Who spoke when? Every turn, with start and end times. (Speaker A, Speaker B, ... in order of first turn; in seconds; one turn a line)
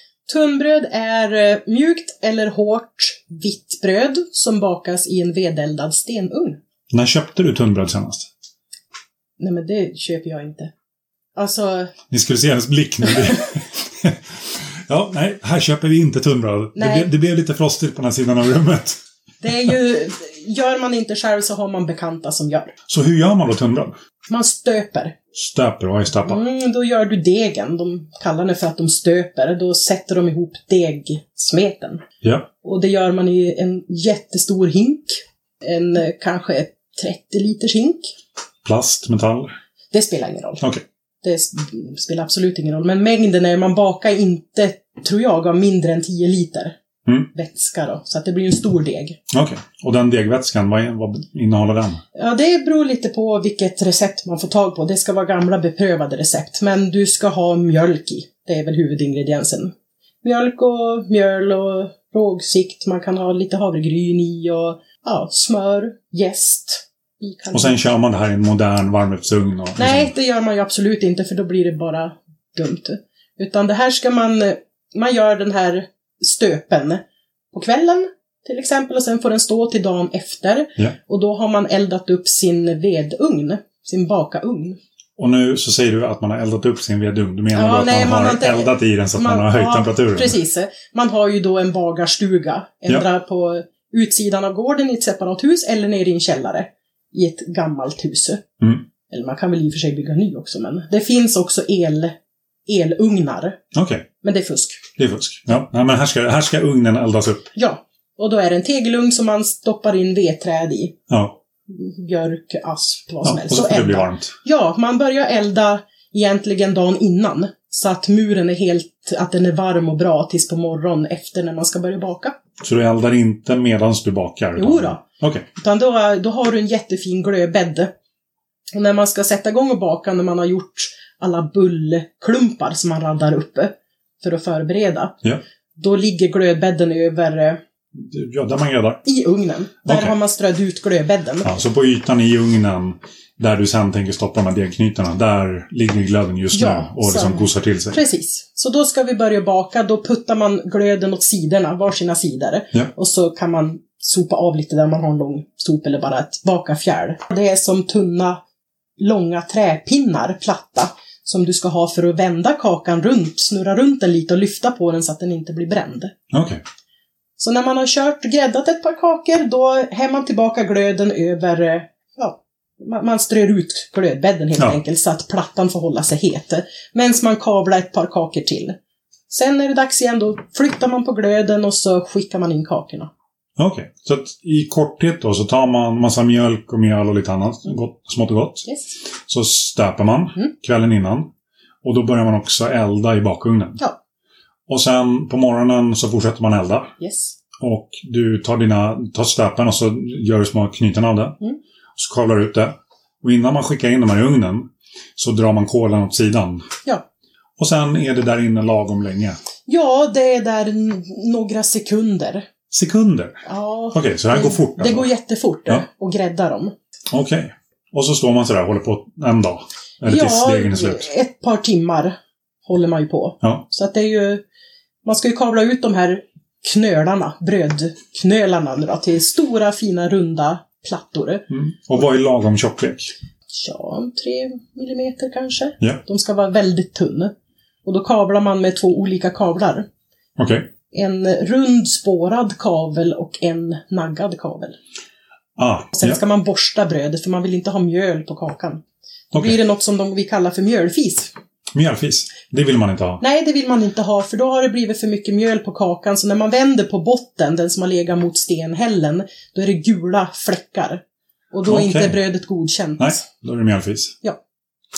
Speaker A: 0.3-6.6
Speaker B: 6.9-8.3
Speaker A: 9.4-10.7
Speaker A: 11.3-11.9
Speaker B: 12.1-19.0
Speaker A: 16.8-17.1
Speaker A: 19.4-22.7
Speaker B: 22.9-23.9
Speaker A: 24.3-25.1
Speaker B: 25.3-26.4
Speaker A: 26.2-32.0
Speaker B: 32.2-32.5
Speaker A: 32.6-38.1
Speaker B: 38.6-39.5
Speaker A: 39.9-40.6
Speaker A: 41.2-46.8
Speaker A: 47.3-49.2
Speaker B: 49.3-52.0
Speaker A: 52.1-67.8
Speaker B: 67.5-70.1
Speaker A: 69.8-84.8
Speaker B: 85.2-90.4
Speaker A: 87.5-98.4
Speaker A: 99.1-103.6
Speaker B: 103.7-104.1
Speaker A: 104.2-104.9
Speaker B: 105.0-107.5
Speaker A: 107.5-111.0
Speaker B: 111.1-111.4
Speaker A: 111.7-122.4
Speaker B: 113.2-114.3
Speaker B: 122.6-125.5
Speaker A: 124.6-125.0
Speaker A: 125.6-127.9
Speaker A: 128.8-135.2
Speaker A: 135.8-137.6
Speaker B: 137.9-139.0
Speaker A: 139.1-141.5
Speaker B: 139.8-140.2
Speaker B: 141.4-148.0
Speaker A: 146.5-158.4
Speaker A: 159.0-166.1
Speaker B: 166.3-166.6
Speaker A: 167.4-178.8
Speaker A: 179.3-183.1
Speaker B: 183.6-188.7
Speaker A: 188.7-188.9
Speaker B: 189.3-191.3
Speaker B: 191.8-193.8
Speaker B: 194.7-196.9
Speaker A: 197.0-197.4
Speaker B: 197.6-201.4
Speaker B: 202.0-206.7
Speaker B: 207.6-209.4
Speaker A: 209.7-212.5
Speaker B: 212.7-213.4
Speaker A: 213.5-216.7
Speaker B: 213.9-215.1
Speaker B: 217.1-221.1
Speaker A: 220.1-224.4
Speaker A: 225.0-231.4
Speaker B: 231.5-233.1
Speaker A: 233.5-237.3
Speaker A: 237.8-239.9
Speaker B: 240.4-240.7
Speaker A: 240.9-244.8
Speaker B: 245.6-246.2
Speaker A: 245.9-248.8
Speaker A: 249.3-251.3
Speaker B: 251.7-253.2
Speaker A: 253.2-263.2
Speaker B: 261.6-262.2
Speaker B: 263.0-264.1